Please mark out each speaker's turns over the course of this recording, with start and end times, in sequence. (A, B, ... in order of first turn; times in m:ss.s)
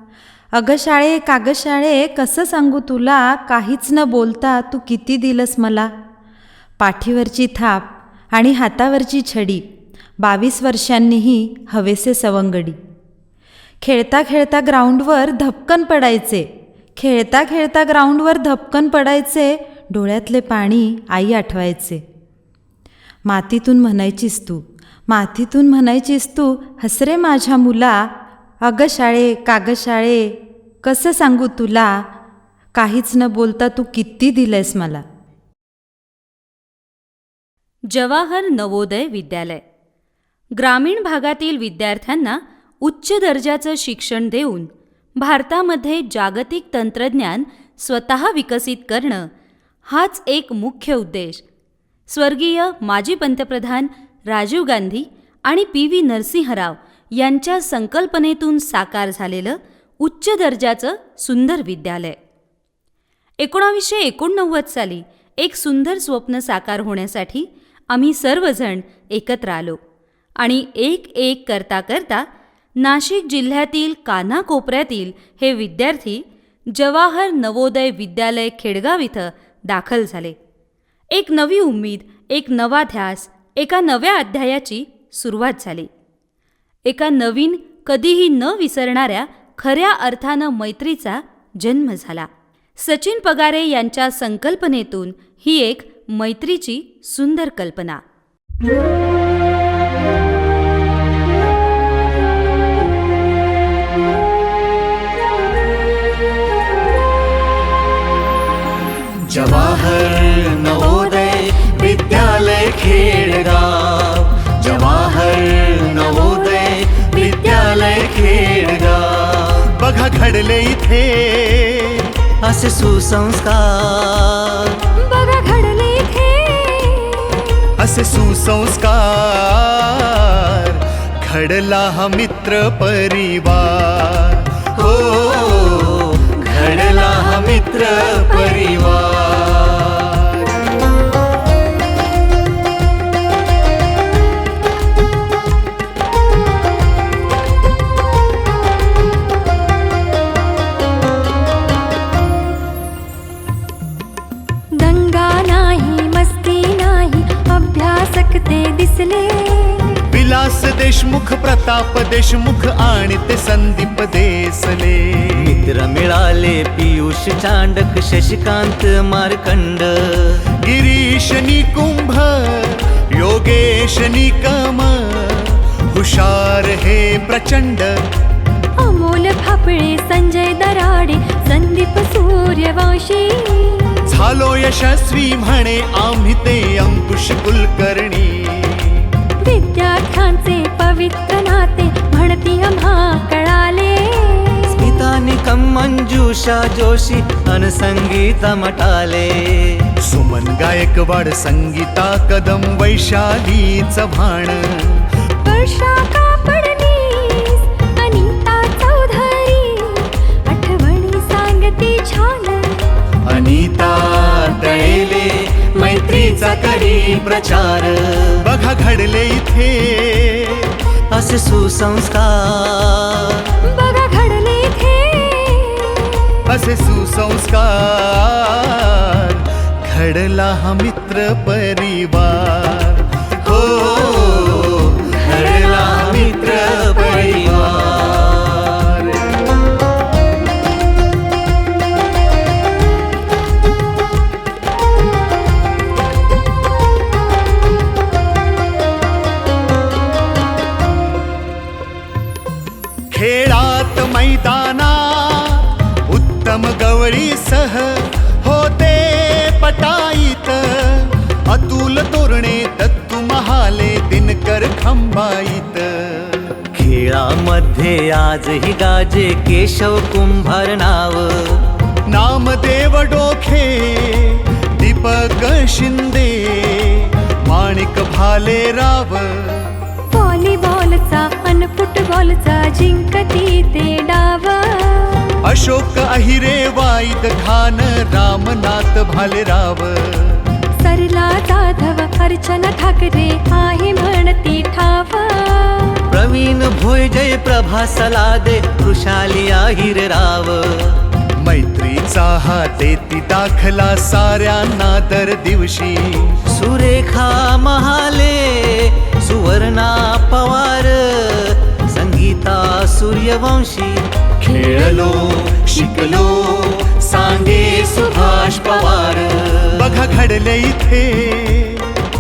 0:00.6-0:05.9 A
0:06.8-0:09.6 A
0:10.2-0:12.8 A
0:13.8-0:22.0 A
0:23.3-0:28.1 A
0:28.7-0:32.0 A
0:32.8-0:35.0 A
0:37.9-0:39.6 B
0:40.6-0:49.3 B
0:49.9-0:51.4 B
0:52.1-1:02.2 B
1:03.4-1:09.8 B
1:10.4-1:12.2 B
1:12.8-1:20.4 B
1:21.1-1:25.9 B
1:26.9-1:38.0 B
1:49.2-1:59.6 C
1:57.2-1:58.0 D
1:59.6-2:02.2 E
2:02.4-2:04.9 C
2:05.0-2:07.7 D
2:07.8-2:15.9 E
2:15.1-2:19.8 C
2:19.7-2:20.4 E
2:34.8-2:40.0 D
2:40.1-2:45.7 E
2:45.4-2:50.4 C
2:50.6-2:58.0 E
2:58.8-3:04.0 D
3:04.1-3:09.1 E
3:09.4-3:14.9 D
3:14.7-3:19.9 C
3:20.0-3:25.1 E
3:25.4-3:32.9 D
3:33.2-3:36.8 E
3:36.1-3:36.8 D
3:37.2-3:38.0 C
3:38.4-3:40.8 E
3:41.1-3:43.6 C
3:43.6-3:46.4 D
3:46.5-3:53.5 E
3:53.6-3:59.1 C
4:13.1-4:26.7 E
4:26.8-4:31.7 C
4:32.1-4:39.8 E
4:40.1-4:45.3 D
4:45.4-4:50.5 E
4:50.8-4:56.1 D
4:56.1-5:01.1 C
5:01.4-5:06.4 E
5:06.5-5:14.1 C
5:14.4-5:18.6 E
5:18.3-5:19.7 C
5:19.7-5:22.0 E